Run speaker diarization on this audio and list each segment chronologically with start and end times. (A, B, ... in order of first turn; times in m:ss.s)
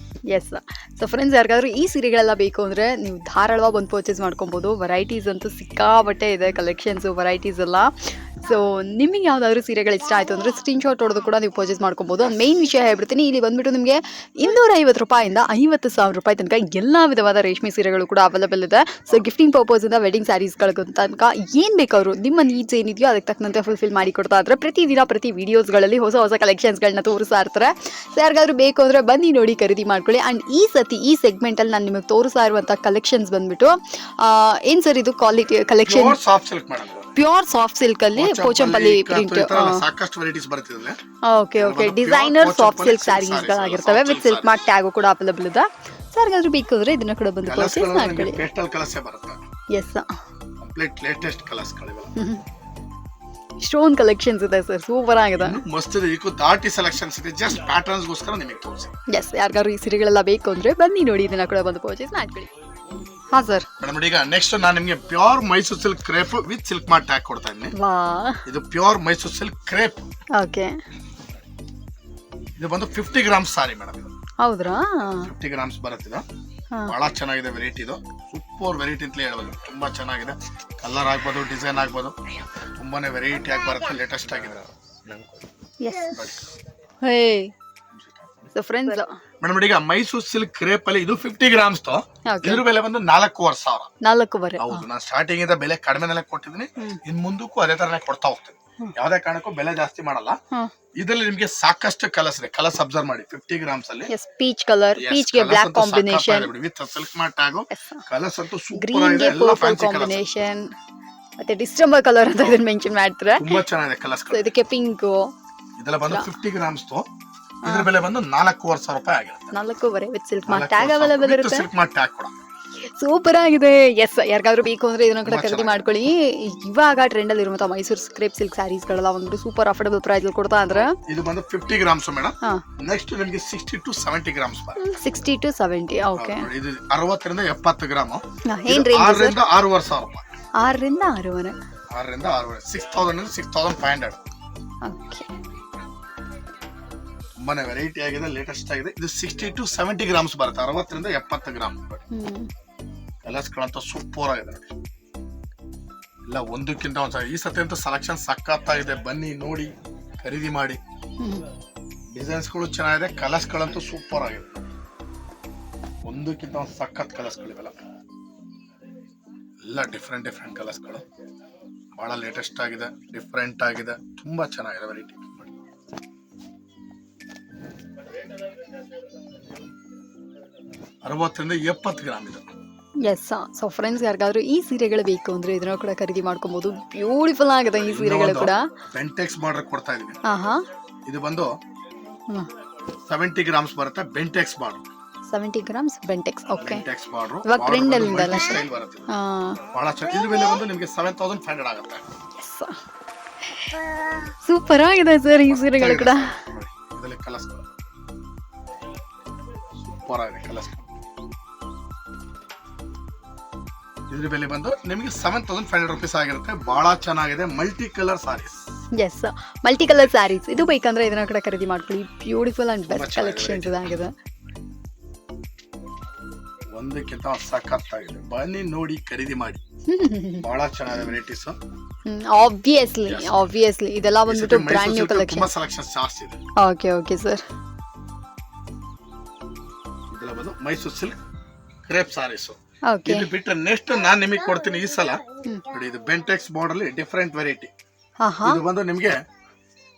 0:00.3-0:36.2 A
0:12.2-0:12.5 B
0:35.8-0:37.1 B
0:37.1-0:39.8 A
0:38.2-0:41.0 B
0:41.2-0:48.4 A
0:41.6-0:44.5 B
0:47.4-0:49.4 B
0:49.7-0:50.1 A
0:50.6-0:52.1 B
0:52.2-0:52.4 A
0:53.6-0:55.6 A
0:55.4-0:58.9 B
0:59.1-1:02.5 A
1:03.3-1:03.6 A
1:03.8-1:07.7 B
1:07.8-1:08.4 A
1:08.4-1:10.0 B
1:10.3-1:10.8 A
1:12.6-1:14.1 B
1:14.4-1:15.3 A
1:15.2-1:16.2 B
1:16.8-1:22.2 B
1:22.8-1:24.6 B
1:25.8-1:26.4 A
1:26.1-1:26.5 B
1:27.0-1:27.5 A
1:28.0-1:28.5 B
1:28.5-1:29.2 A
1:29.4-1:33.9 B
1:32.3-1:32.6 A
1:34.0-1:34.8 A
1:34.6-1:40.4 B
1:41.0-1:44.1 B
1:44.1-1:46.5 A
1:45.0-1:50.2 B
1:47.7-1:48.0 A
1:48.7-1:50.7 A
1:51.4-1:53.6 A
1:53.4-1:54.5 B
1:54.3-1:55.3 A
1:55.8-1:57.1 B
1:57.6-1:59.6 B
1:57.6-1:57.9 A
1:59.5-2:01.7 A
2:00.5-2:02.3 B
2:02.8-2:11.0 A
2:05.2-2:05.9 B
2:10.9-2:14.8 B
2:14.8-2:16.5 A
2:16.2-2:20.2 B
2:18.4-2:19.4 A
2:20.6-2:21.6 A
2:21.9-2:24.2 B
2:24.8-2:25.3 A
2:27.4-2:32.0 B
2:32.1-2:32.5 A
2:33.2-2:34.7 B
2:36.3-2:40.8 B
2:42.1-2:44.5 B
2:46.0-2:47.8 B
2:49.6-2:51.0 B
2:51.9-2:55.5 B
3:01.0-3:02.4 B
3:03.0-3:08.7 A
3:07.7-3:10.2 B
3:10.2-3:10.6 A
3:11.1-3:11.5 B
3:13.1-3:14.8 B
3:15.3-3:16.8 A
3:16.6-3:19.1 B
3:17.4-3:19.6 A
3:19.7-3:22.0 B
3:22.4-3:22.7 A
3:24.4-3:26.4 A
3:25.4-3:27.6 B
3:29.8-3:30.8 B
3:34.1-3:38.6 B
3:39.0-3:44.1 A
3:42.9-3:43.9 B
3:46.7-3:49.6 B
3:49.9-3:50.4 A
3:50.4-3:51.6 B
3:52.0-3:55.5 A
3:53.1-3:53.3 B
3:54.3-3:56.4 B
3:56.6-3:57.4 A
4:00.1-4:01.2 B
4:01.9-4:07.7 B
4:02.9-4:03.3 A
4:08.2-4:08.6 A
4:08.4-4:09.2 B